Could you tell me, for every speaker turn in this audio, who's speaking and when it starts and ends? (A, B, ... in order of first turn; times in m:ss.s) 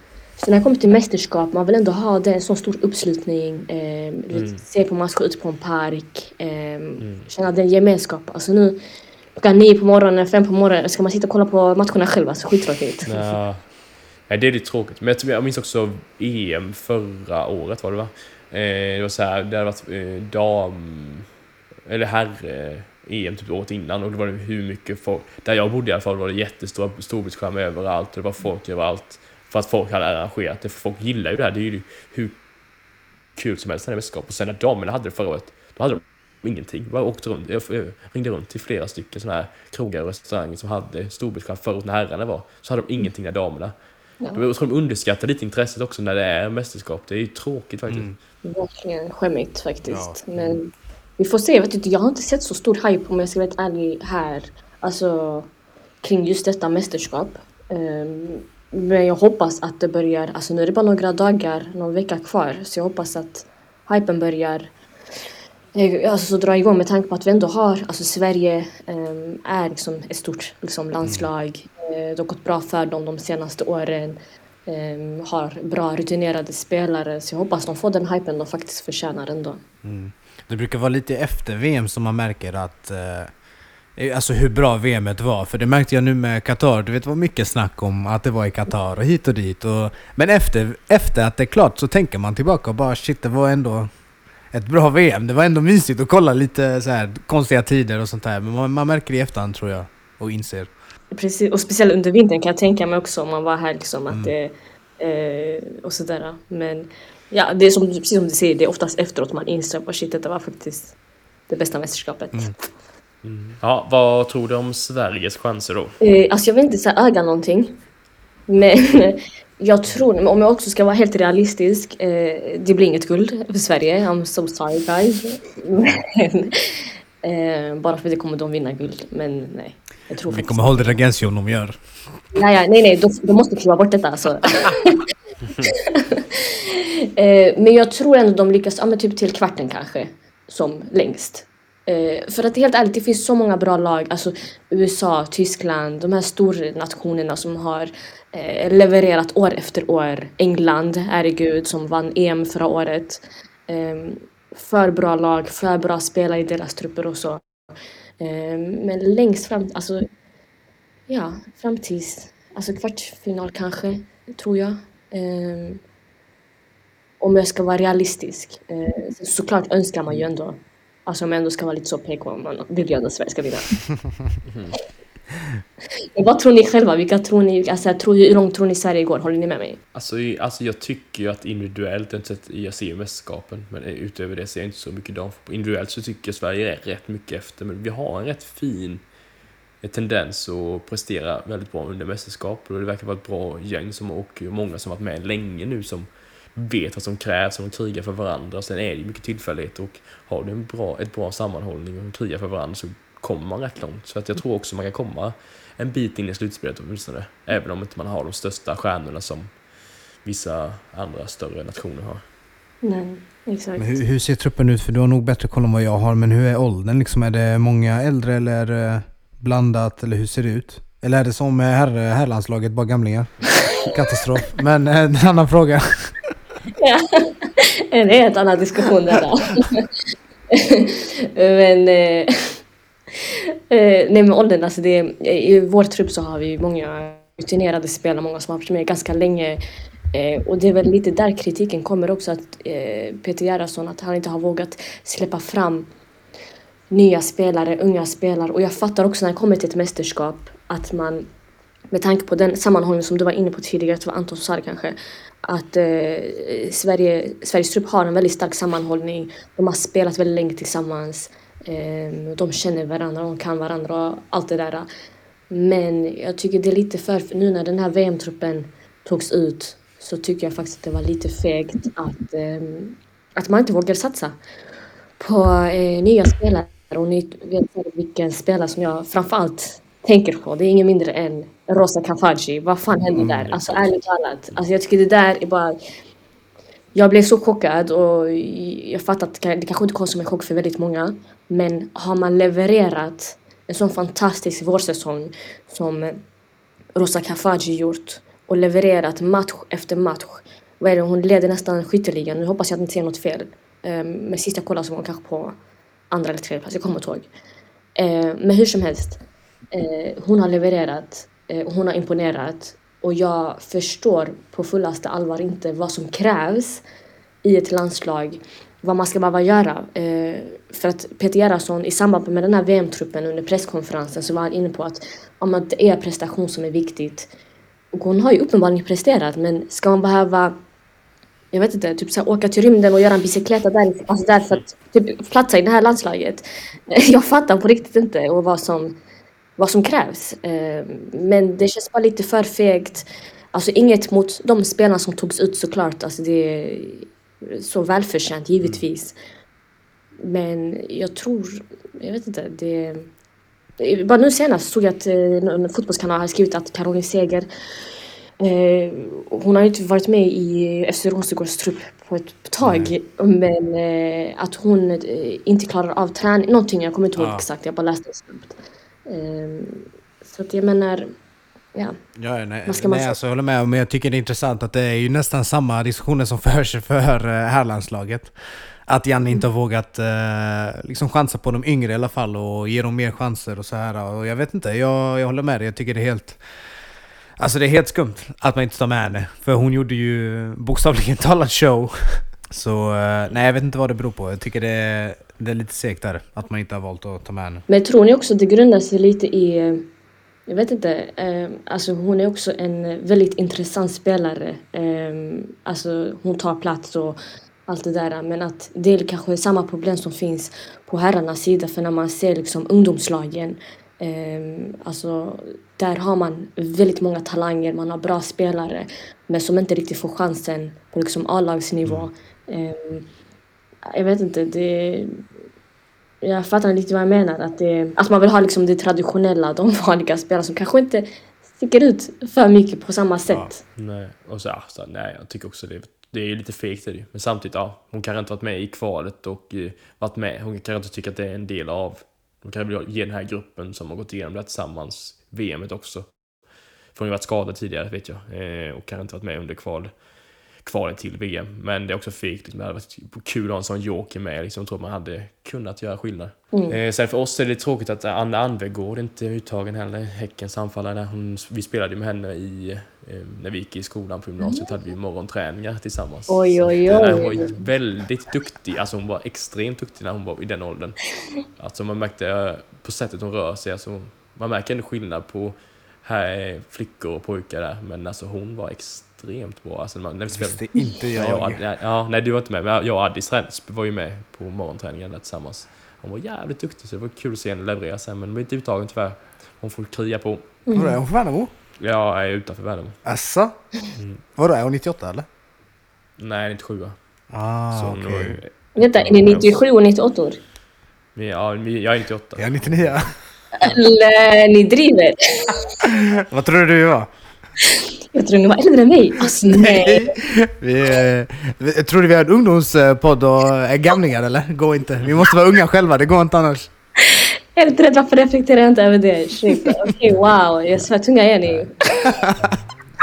0:00.4-0:08.8 A
0:04.3-0:04.6 B
0:07.0-0:07.3 B
0:09.4-0:13.4 A
0:13.1-0:21.3 B
0:21.9-0:32.4 B
0:33.4-0:43.8 B
0:44.3-0:48.1 B
0:47.9-0:48.2 C
0:48.4-0:55.5 A
0:49.9-0:50.5 C
0:56.0-1:04.7 A
1:05.8-1:19.6 A
1:11.0-1:11.3 C
1:19.8-1:23.3 C
1:24.0-1:33.9 C
1:34.5-1:40.7 C
1:41.1-1:51.0 A
1:44.1-1:44.4 C
1:51.5-1:52.5 A
1:53.2-1:56.0 B
1:56.0-1:57.8 A
1:58.5-2:06.6 A
2:07.2-2:11.0 A
2:10.3-2:11.8 C
2:12.3-2:15.0 A
2:15.6-2:37.4 A
2:38.2-2:40.1 A
2:41.1-2:45.8 A
2:47.2-2:53.8 A
2:54.5-2:54.7 B
2:56.2-2:59.8 A
2:59.9-3:09.0 B
3:09.8-3:29.5 B
3:30.2-3:32.2 B
3:32.8-3:34.0 A
3:33.8-3:46.1 C
3:46.8-3:49.9 A
3:50.5-3:52.6 A
3:53.3-3:59.6 A
4:00.1-4:05.9 A
4:06.9-4:11.3 A
4:11.9-4:24.9 A
4:25.5-4:34.4 A
4:35.2-4:45.8 A
4:43.2-4:43.6 C
4:47.0-4:56.2 A
4:57.0-5:05.6 A
5:06.1-5:07.3 A
5:08.0-5:16.8 A
5:17.4-5:27.3 A
5:27.9-5:30.6 A
5:31.5-5:39.0 A
5:39.6-5:49.2 A
5:50.2-5:53.1 A
5:53.8-5:57.5 A
5:58.4-6:11.1 A
6:02.6-6:02.9 C
6:07.2-6:07.4 C
6:12.2-6:18.3 C
6:12.7-6:13.2 A
6:18.9-6:26.4 C
6:27.4-6:37.6 C
6:37.7-6:39.9 A
6:40.5-7:03.1 A
7:03.9-7:05.2 A
7:06.2-7:11.1 A
7:11.6-7:13.6 A
7:13.8-7:26.2 B
7:26.9-7:30.0 B
7:30.6-8:10.5 B
7:44.4-7:44.7 A
7:46.3-7:47.5 A
8:00.3-8:01.6 C
8:10.7-8:11.0 A
8:10.7-8:11.5 C
8:11.8-8:13.0 B
8:13.0-8:13.6 C
8:14.0-8:14.2 B
8:14.4-8:15.3 C
8:16.2-8:17.0 B
8:17.3-8:18.4 C
8:17.7-8:19.5 B
8:18.8-8:20.4 A
8:21.2-8:22.9 B
8:22.4-8:23.1 C
8:23.6-8:25.6 A
8:25.8-8:27.1 C
8:27.7-8:30.2 A
8:29.5-8:36.7 C
8:37.0-8:42.2 A
8:42.2-8:42.6 C